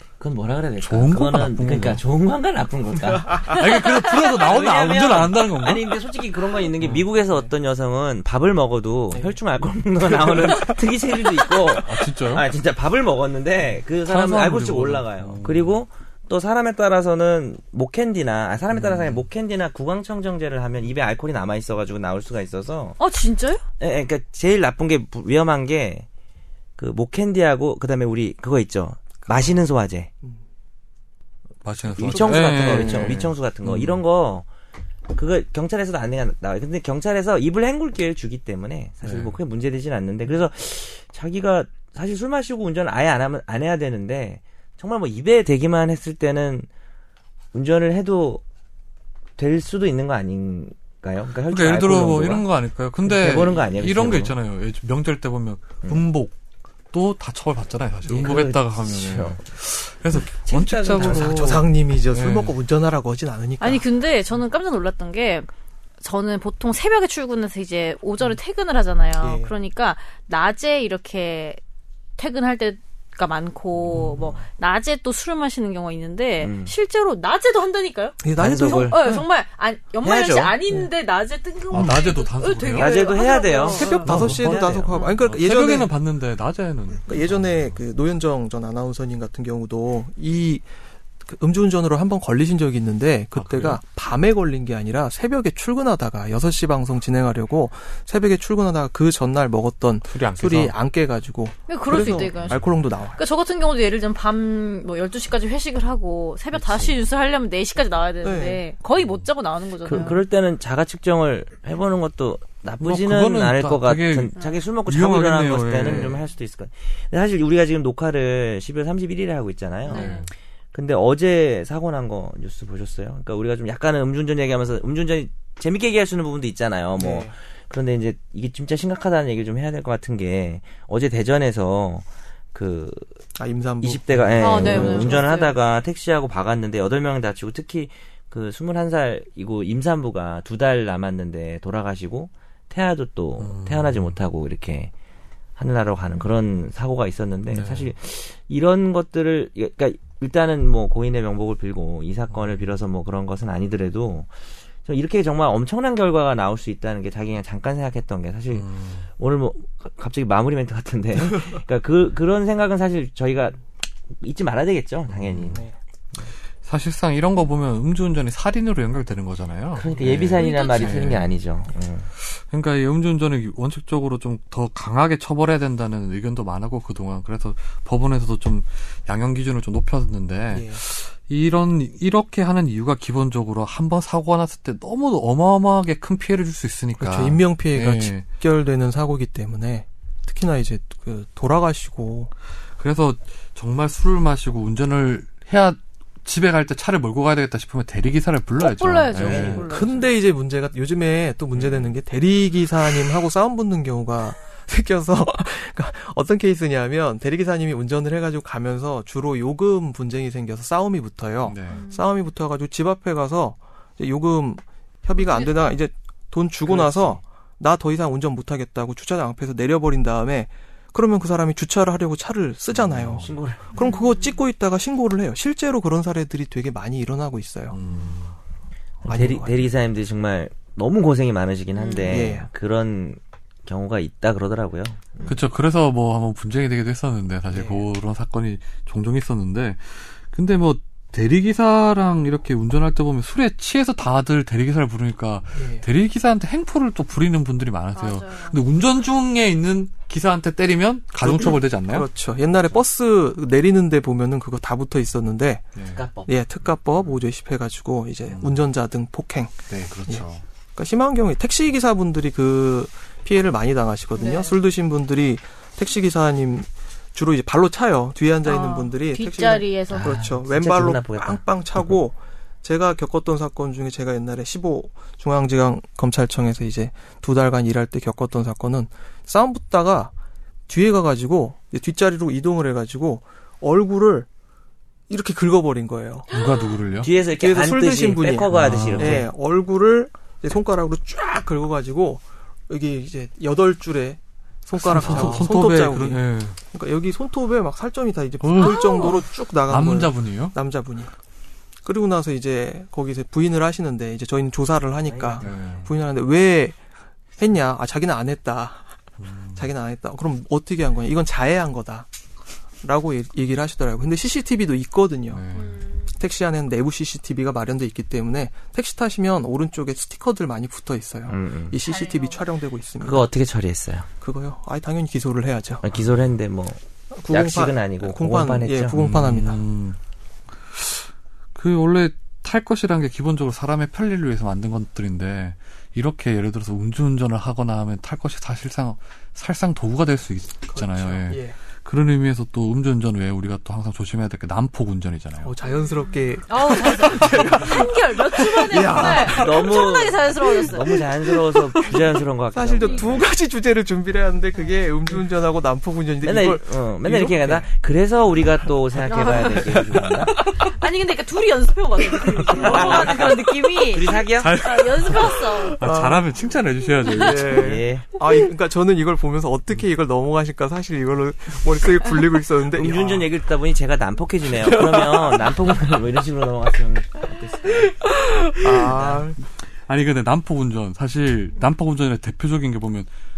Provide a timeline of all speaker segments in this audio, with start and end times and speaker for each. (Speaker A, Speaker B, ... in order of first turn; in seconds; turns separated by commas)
Speaker A: 0.2-3.5, Speaker B: 0.8-2.0, Speaker C: 3.3-3.6, Speaker B: 3.5-6.0, Speaker A: 4.3-23.0, Speaker B: 6.8-7.0, Speaker C: 7.2-7.5, Speaker C: 9.1-9.4, Speaker C: 10.3-10.6, Speaker B: 11.6-12.5, Speaker B: 14.0-15.8, Speaker B: 18.7-19.2, Speaker D: 23.0-23.6, Speaker A: 23.8-26.1, Speaker A: 26.8-30.1, Speaker C: 29.2-29.5, Speaker B: 31.6-34.0, Speaker A: 31.9-34.5, Speaker C: 32.1-33.3, Speaker A: 35.1-46.7, Speaker B: 39.0-39.4, Speaker A: 47.5-48.4, Speaker A: 49.4-52.4, Speaker B: 51.5-56.3, Speaker A: 53.0-54.4, Speaker B: 56.9-62.5, Speaker A: 58.1-59.4, Speaker A: 60.3-61.5, Speaker C: 61.0-63.8, Speaker D: 63.6-65.5, Speaker D: 66.0-71.6, Speaker C: 69.2-69.5, Speaker D: 72.2-84.1, Speaker A: 74.0-74.4, Speaker A: 76.4-76.7, Speaker C: 78.2-79.2, Speaker A: 78.4-79.2, Speaker A: 80.0-80.5, Speaker B: 81.7-82.9, Speaker A: 82.7-84.9, Speaker C: 83.6-85.9, Speaker B: 84.0-87.8, Speaker D: 84.9-85.2, Speaker C: 87.0-90.7, Speaker C: 91.2-103.2, Speaker B: 93.3-93.8, Speaker B: 100.1-100.8, Speaker D: 101.7-110.2, Speaker B: 102.0-102.7, Speaker A: 106.5-107.0, Speaker C: 108.2-108.6, Speaker B: 109.0-109.2, Speaker A: 109.8-120.2, Speaker B: 112.8-116.2, Speaker D: 119.8-120.2, Speaker B: 119.9-120.3, Speaker A: 120.7-133.2, Speaker C: 127.0-127.3, Speaker C: 133.3-135.3, Speaker A: 133.8-144.9, Speaker B: 134.3-134.9, Speaker D: 134.4-135.6, Speaker B: 143.4-144.1, Speaker A: 145.6-154.3, Speaker B: 147.5-147.9, Speaker B: 152.3-152.6, Speaker A: 154.8-163.6, Speaker B: 158.5-159.1, Speaker A: 164.2-165.6, Speaker B: 165.1-165.6, Speaker B: 166.6-171.3, Speaker A: 169.7-172.1, Speaker D: 170.3-171.2, Speaker B: 172.2-188.2, Speaker C: 180.5-180.8, Speaker C: 187.0-192.3, Speaker B: 192.8-199.6, Speaker D: 198.6-200.1, Speaker A: 199.1-199.7, Speaker C: 199.5-227.8, Speaker B: 201.6-201.8, Speaker B: 211.4-211.8, Speaker D: 211.7-212.1, Speaker D: 215.2-215.5, Speaker A: 216.7-217.1, Speaker B: 222.8-223.3, Speaker A: 223.1-223.8, Speaker D: 223.7-224.4, Speaker B: 227.7-228.3, Speaker C: 229.0-229.7, Speaker A: 229.0-235.4, Speaker D: 231.7-232.3, Speaker C: 232.0-232.5, Speaker B: 235.2-252.1, Speaker C: 237.5-237.8, Speaker C: 245.5-245.8, Speaker D: 247.9-248.6, Speaker C: 251.2-255.7, Speaker B: 255.8-256.1, Speaker A: 255.9-256.3, Speaker C: 256.2-260.2, Speaker B: 258.3-258.6, Speaker B: 259.7-260.4, Speaker C: 260.8-280.1, Speaker D: 264.2-264.6, Speaker D: 268.4-270.1, Speaker A: 269.9-271.4, Speaker C: 280.7-284.3, Speaker C: 285.1-286.3, Speaker B: 286.3-287.1, Speaker D: 286.3-286.7, Speaker A: 287.0-289.3, Speaker C: 287.3-301.1, Speaker B: 288.5-289.2, Speaker B: 294.8-296.6, Speaker A: 295.1-295.4, Speaker B: 298.4-300.6, Speaker D: 298.6-299.2, Speaker C: 301.8-306.8, Speaker A: 305.1-305.6, Speaker B: 305.4-305.9, Speaker C: 307.4-308.9, Speaker B: 309.2-309.6, Speaker C: 309.5-312.1, Speaker C: 312.8-315.4, Speaker B: 315.3-315.8, Speaker D: 315.5-316.1, Speaker C: 316.1-323.3, Speaker A: 321.3-321.8, Speaker D: 321.8-322.4, Speaker A: 323.0-324.1, Speaker C: 324.2-325.8, Speaker A: 325.8-328.9, Speaker C: 327.1-329.6, Speaker B: 328.9-330.0, Speaker B: 330.7-345.5, Speaker C: 340.7-341.6, Speaker C: 345.4-349.8, Speaker D: 346.5-351.0, Speaker A: 349.0-353.3, Speaker C: 350.9-357.7, Speaker A: 356.2-360.4, Speaker D: 359.0-365.8, Speaker A: 362.5-364.5, Speaker C: 362.6-363.2, Speaker B: 364.4-367.7, Speaker C: 365.8-366.3, Speaker C: 367.1-373.3, Speaker A: 367.5-368.1, Speaker A: 372.7-378.1, Speaker C: 374.6-375.4, Speaker C: 378.6-379.4, Speaker A: 378.8-379.2, Speaker B: 379.8-383.1